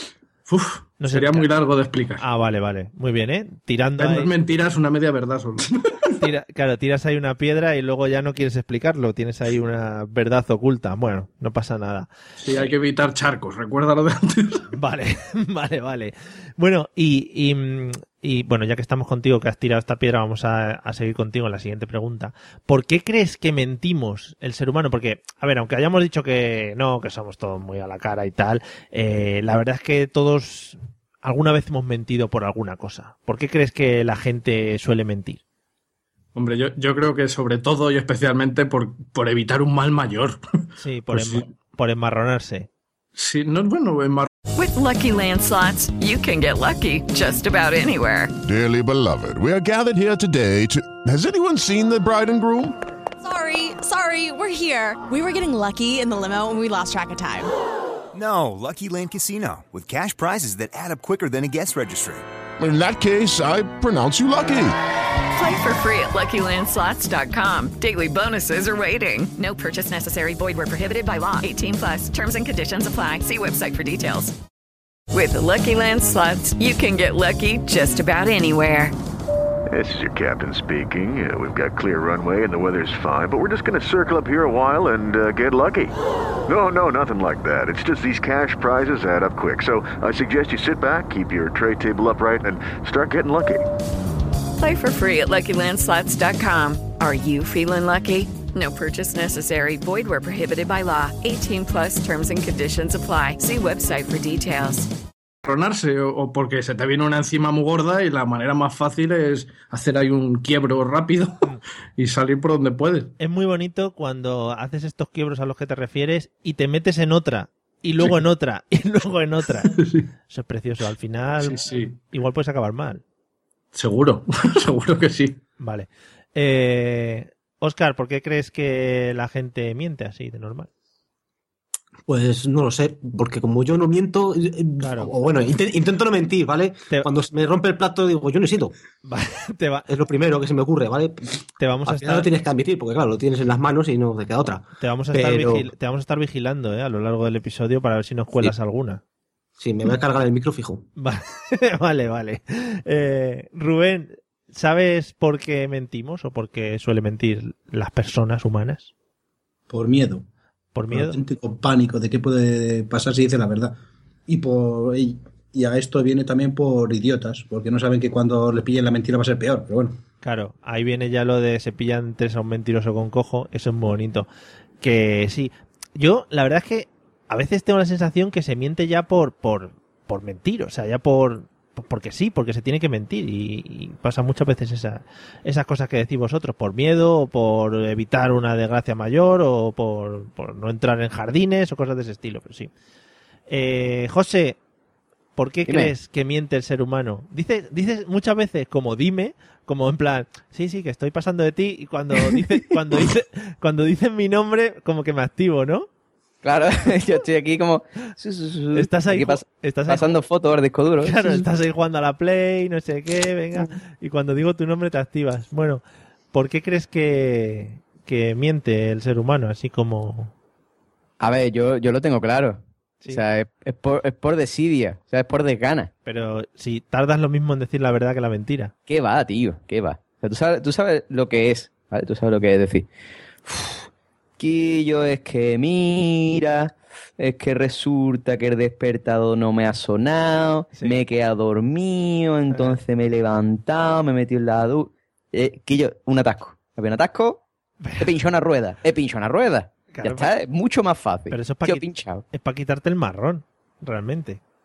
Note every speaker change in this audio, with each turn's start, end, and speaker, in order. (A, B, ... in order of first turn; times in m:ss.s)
0:00.5-0:02.2 A
0:01.0-0:01.5 B
0:02.2-0:04.3 B
0:04.0-0:06.1 A
0:06.2-0:12.7 B
0:12.4-0:14.6 A
0:14.7-0:35.4 B
0:36.4-0:40.4 A
0:40.8-0:42.7 B
0:41.1-0:41.5 A
0:43.2-0:44.3 A
0:44.6-0:48.3 C
0:48.4-0:52.8 D
0:53.2-0:57.5 E
0:58.1-1:02.2 F
1:02.6-1:04.8 D
1:05.3-1:14.3 C
1:15.1-1:18.9 C
1:19.7-1:25.9 G
1:26.5-1:33.6 G
1:34.6-1:44.9 C
1:45.4-1:51.4 A
1:52.0-1:53.1 A
1:53.2-1:59.8 B
1:59.7-2:00.0 A
2:00.3-2:03.0 B
2:01.4-2:02.0 A
2:03.7-2:05.4 A
2:05.6-2:10.7 B
2:12.1-2:18.7 H
2:14.8-2:15.1 B
2:19.0-2:19.9 B
2:19.9-2:25.7 H
2:21.6-2:22.3 B
2:24.8-2:29.0 B
2:29.6-2:30.8 H
2:31.0-2:38.9 B
2:39.7-2:40.2 I
2:40.7-2:41.2 B
2:40.9-2:43.8 I
2:44.3-2:50.0 I
2:50.2-2:54.3 B
2:54.8-3:12.7 B
3:13.5-3:14.6 B
3:15.4-3:25.9 B
3:15.7-3:15.9 J
3:26.4-3:31.5 J
3:28.7-3:30.1 B
3:31.0-3:35.8 B
3:36.3-3:40.3 B
3:41.2-3:45.9 J
3:46.1-3:48.7 B
3:48.9-3:52.9 J
3:53.5-3:53.9 J
3:54.4-4:07.4 J
4:00.8-4:01.0 B
4:02.5-4:02.8 B
4:07.8-4:08.2 B
4:08.0-4:12.2 J
4:09.9-4:10.3 B
4:11.3-4:14.4 B